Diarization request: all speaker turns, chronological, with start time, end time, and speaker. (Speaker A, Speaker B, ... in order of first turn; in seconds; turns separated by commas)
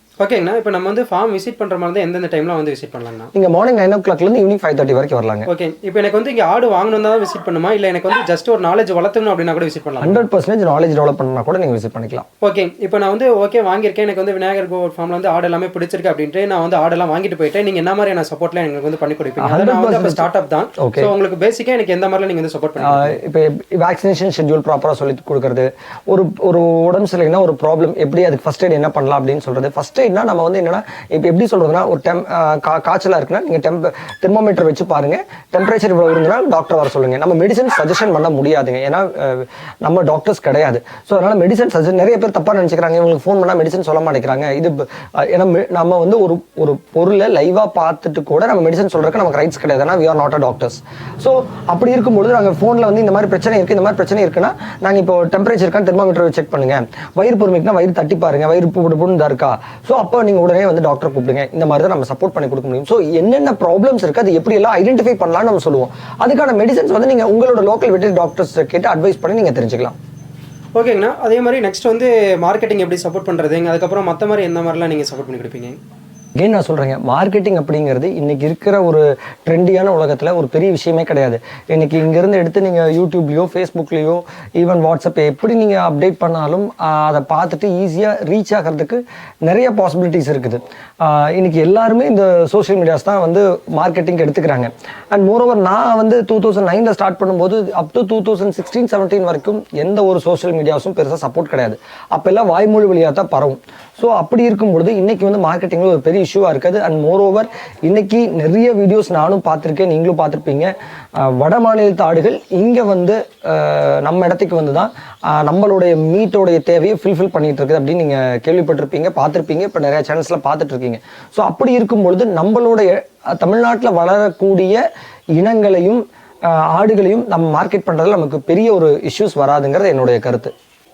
Speaker A: 0.2-3.3, Speaker B: 3.3-5.5, Speaker A: 5.5-10.2, Speaker B: 10.0-12.2, Speaker A: 12.4-23.2, Speaker B: 19.4-20.2, Speaker B: 20.8-21.1, Speaker B: 22.8-70.0, Speaker A: 70.8-75.8, Speaker B: 76.4-124.8, Speaker B: 125.4-130.5